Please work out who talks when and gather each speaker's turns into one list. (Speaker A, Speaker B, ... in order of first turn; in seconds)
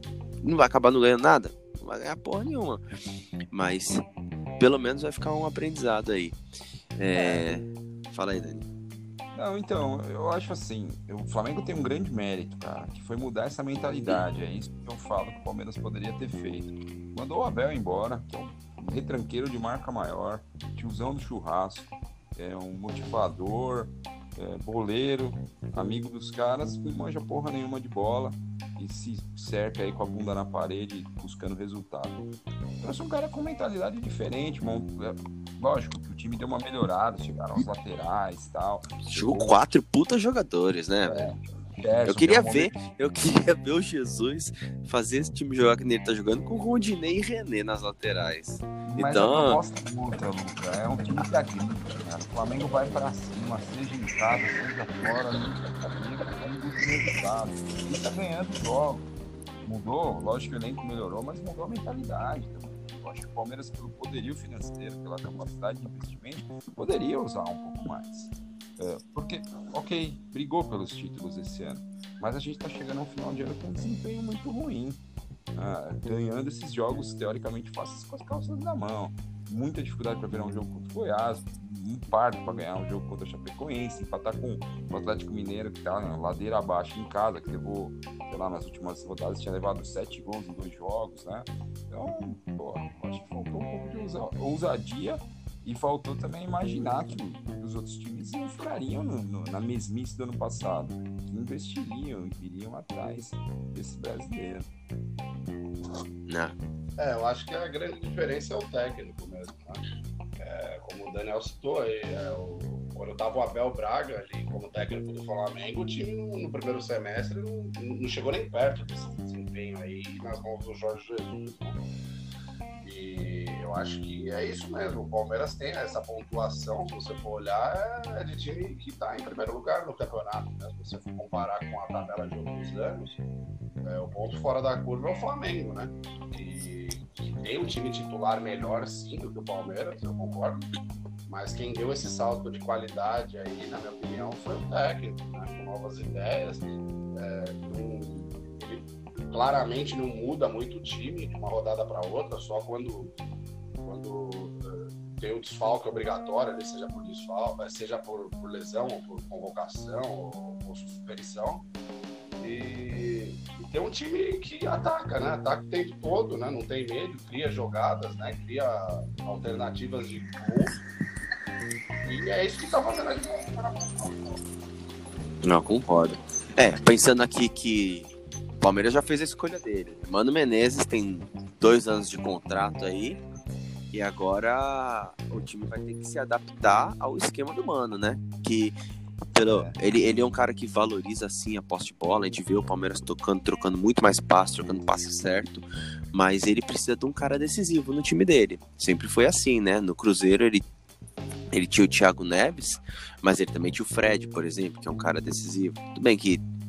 Speaker A: 0.4-2.8, 3.5-4.0, 4.6-6.4, 7.0-8.7, 39.0-41.3, 42.1-49.6, 106.3-106.5, 175.4-183.2, 183.9-188.8, 189.3-200.6, 201.5-206.4
Speaker B: 7.1-7.4, 9.3-32.2, 32.8-39.6, 41.0-42.7, 48.9-59.0, 59.6-75.0, 75.5-104.7, 189.4-189.7
Speaker C: 107.0-109.8, 110.4-121.8, 122.8-133.2, 133.8-140.6, 141.3-153.2, 153.8-161.7, 162.4-170.8, 172.0-174.4